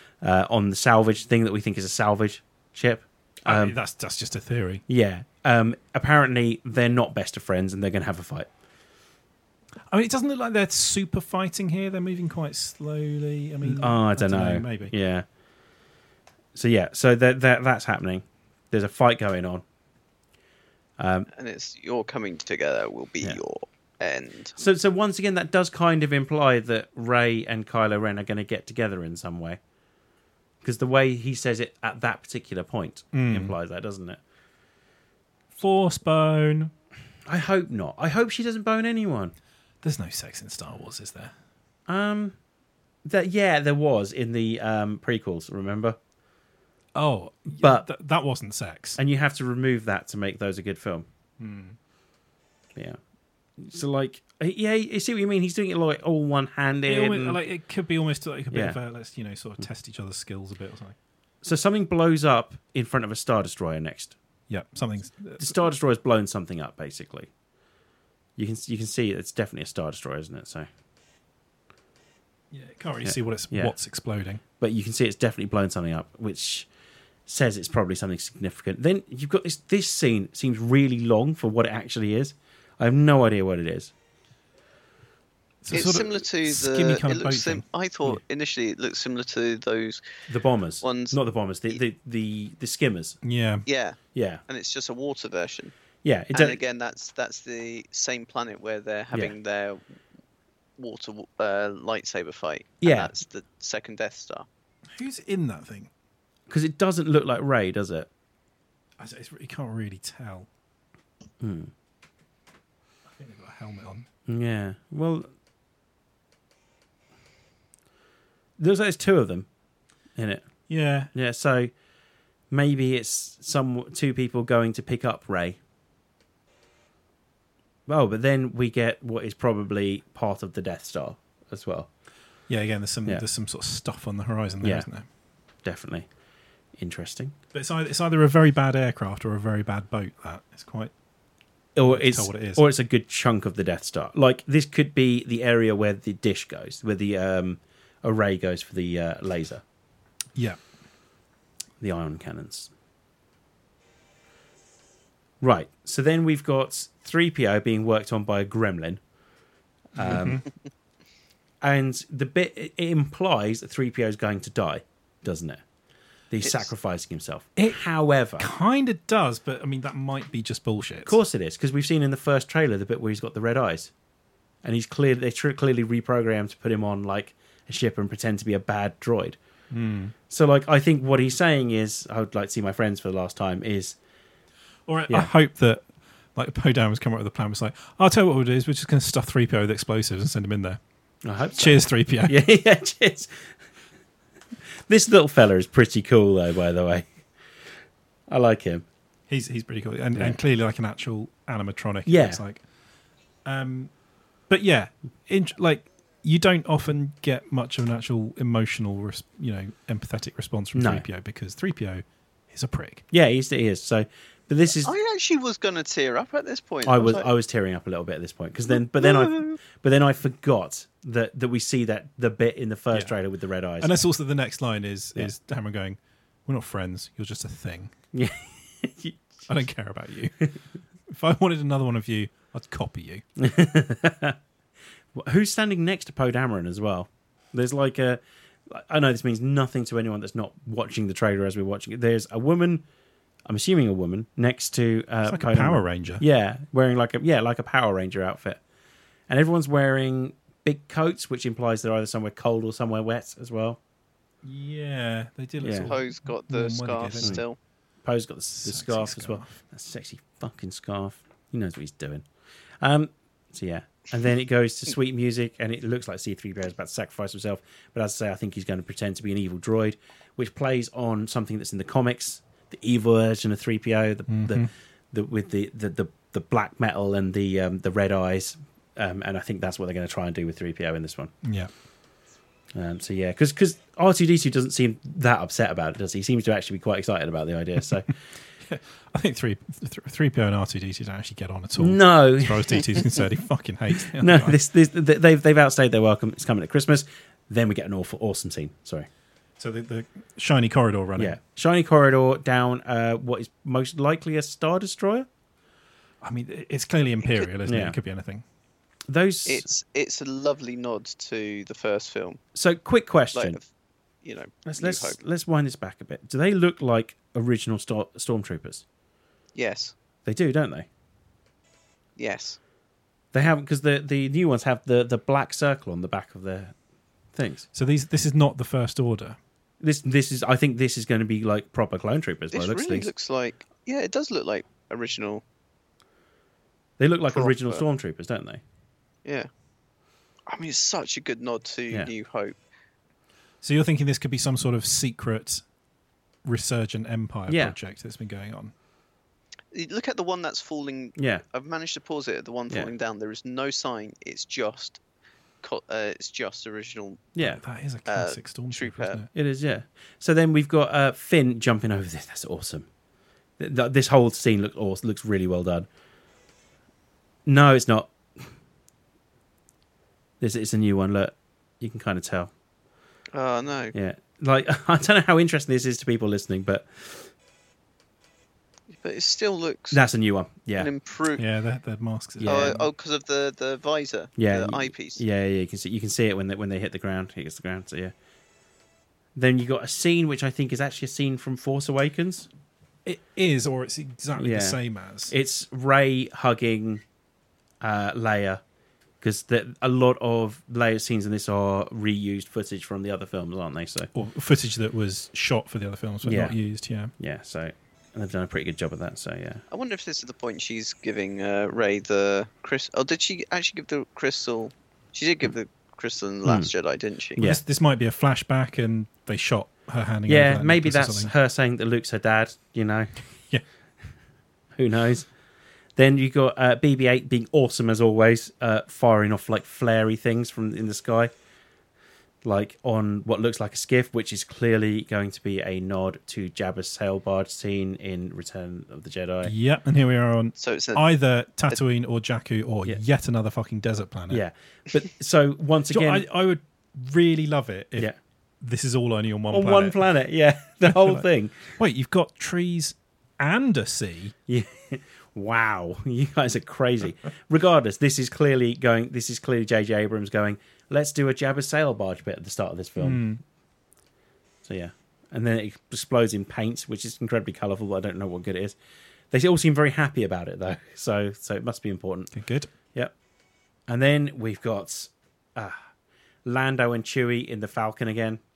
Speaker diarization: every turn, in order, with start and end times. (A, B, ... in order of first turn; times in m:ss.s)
0:00.2-0:03.8 A
0:03.4-0:04.8 B
0:04.9-0:08.5 A
0:09.9-0:14.9 B
0:13.6-0:15.2 A
0:16.5-0:19.6 A
0:21.0-0:21.3 A
0:21.3-0:24.5 C
0:24.6-0:29.6 A
0:30.6-0:34.2 A
0:33.1-0:33.5 B
0:35.6-0:36.7 B
0:37.2-0:39.3 A
0:39.8-0:41.3 B
0:41.9-0:42.4 A
0:43.0-0:46.0 A
0:46.9-0:49.0 B
0:47.5-0:47.9 A
0:49.0-0:51.1 A
0:51.4-0:51.8 B
0:53.6-0:57.4 A
0:56.8-1:01.0 B
0:58.5-0:58.8 A
1:01.4-1:04.1 A
1:04.5-1:05.6 B
1:05.4-1:07.3 A
1:08.4-1:10.7 A
1:12.5-1:14.4 B
1:13.0-1:13.7 A
1:14.6-1:16.7 A
1:17.3-1:23.9 A
1:25.6-1:28.2 B
1:25.7-1:30.0 C
1:30.3-1:33.2 A
1:30.8-1:31.2 C
1:33.2-1:33.6 B
1:33.6-1:35.7 C
1:34.1-1:34.4 A
1:36.0-1:36.6 A
1:36.3-1:39.8 C
1:40.8-1:44.4 C
1:42.8-1:43.1 A
1:44.9-1:45.9 B
1:46.5-1:48.1 A
1:49.0-1:50.5 B
1:51.4-1:51.7 A
1:53.1-1:54.0 B
1:54.3-1:55.3 A
1:58.6-1:59.5 A
2:00.2-2:00.5 A
2:00.7-2:01.1 B
2:01.1-2:01.7 A
2:02.5-2:05.6 A
2:07.9-2:11.9 A
2:12.5-2:15.0 B
2:14.6-2:14.9 A
2:15.6-2:16.1 A
2:16.8-2:17.3 A
2:17.5-2:20.9 B
2:21.8-2:29.6 A
2:21.8-2:22.6 B
2:31.8-2:32.7 A
2:35.4-2:39.0 A
2:39.9-2:40.4 A
2:40.0-2:40.4 B
2:41.6-2:45.6 A
2:46.3-2:48.5 A
2:46.4-2:46.7 C
2:47.6-2:47.8 B
2:48.4-2:51.2 B
2:51.0-2:53.9 A
2:54.6-2:59.4 A
2:59.7-3:00.1 B
3:00.3-3:04.0 A
3:04.9-3:05.8 B
3:06.3-3:10.8 B
3:11.2-3:13.5 A
3:11.6-3:12.4 B
3:14.9-3:17.1 A
3:18.3-3:18.8 A
3:19.3-3:22.6 B
3:22.0-3:22.4 A
3:23.4-3:23.9 B
3:24.5-3:33.0 B
3:30.7-3:31.0 A
3:33.1-3:34.9 A
3:34.8-3:37.3 C
3:36.8-3:44.0 A
3:38.9-3:39.6 C
3:43.8-3:47.9 B
3:48.1-3:49.2 A
3:49.5-3:50.5 B
3:51.1-3:53.2 B
3:53.4-3:54.4 A
3:55.1-4:02.8 A
4:03.4-4:08.6 A
4:05.2-4:06.2 B
4:09.3-4:13.8 A
4:14.4-4:17.4 B
4:15.6-4:15.9 A
4:15.8-4:17.6 C
4:18.0-4:22.2 A
4:18.5-4:19.6 B
4:22.8-4:41.3 A
4:34.3-4:34.7 B
4:41.4-4:41.7 B
4:42.7-4:48.1 A
4:48.6-4:54.6 B
4:51.8-4:53.2 A
4:54.1-4:59.1 A
4:59.6-5:01.4 B
5:01.2-5:05.3 A
5:06.2-5:08.4 B
5:07.6-5:08.0 A
5:09.1-5:09.7 A
5:09.4-5:12.4 C
5:12.5-5:13.6 A
5:13.3-5:13.6 C
5:14.2-5:15.2 C
5:14.6-5:18.8 A
5:19.5-5:19.9 C
5:20.2-5:20.9 A
5:22.2-5:22.6 C
5:23.3-5:26.8 A
5:27.3-5:27.6 A
5:27.7-5:29.4 B
5:29.8-5:33.1 A
5:32.5-5:35.4 C
5:37.0-5:38.6 A
5:37.3-5:37.8 C
5:39.2-5:39.5 C
5:40.5-5:42.6 C
5:43.6-5:45.6 B
5:46.4-5:48.7 B
5:47.5-5:47.8 A
5:49.7-5:55.0 C
5:51.2-5:51.4 A
5:55.6-5:57.3 C
5:57.4-5:57.6 A
5:57.4-5:59.3 B
5:58.1-5:59.2 C
5:59.3-6:02.9 A
6:03.6-6:05.9 A
6:07.4-6:08.2 A
6:10.4-6:12.5 A
6:13.3-6:13.9 C
6:13.9-6:17.3 A
6:18.9-6:20.0 C
6:19.9-6:20.9 A
6:20.8-6:21.4 C
6:21.4-6:22.8 B
6:22.4-6:22.8 A
6:22.4-6:25.2 C
6:24.4-6:28.1 A
6:29.3-6:32.5 A
6:33.0-6:35.3 B
6:34.4-6:34.8 A
6:35.3-6:37.0 A
6:37.8-6:38.6 A
6:39.2-6:44.1 A
6:44.1-6:47.1 B
6:46.2-6:46.6 A
6:47.2-6:49.6 A
6:49.7-6:57.4 C
6:56.4-6:56.7 A
6:57.4-7:01.3 B
7:00.3-7:03.1 A
7:04.7-7:05.3 A
7:06.0-7:11.3 A
7:12.4-7:19.5 A
7:19.4-7:24.4 B
7:20.6-7:21.0 C
7:24.3-7:26.2 A
7:25.9-7:28.1 B
7:28.6-7:30.0 B
7:29.5-7:31.7 A
7:30.8-7:34.3 B
7:34.5-7:43.2 A
7:43.0-7:43.4 B
7:44.6-7:48.8 A
7:49.3-7:52.3 A
7:52.3-7:52.7 B
7:53.9-7:55.8 A
7:56.4-7:58.4 A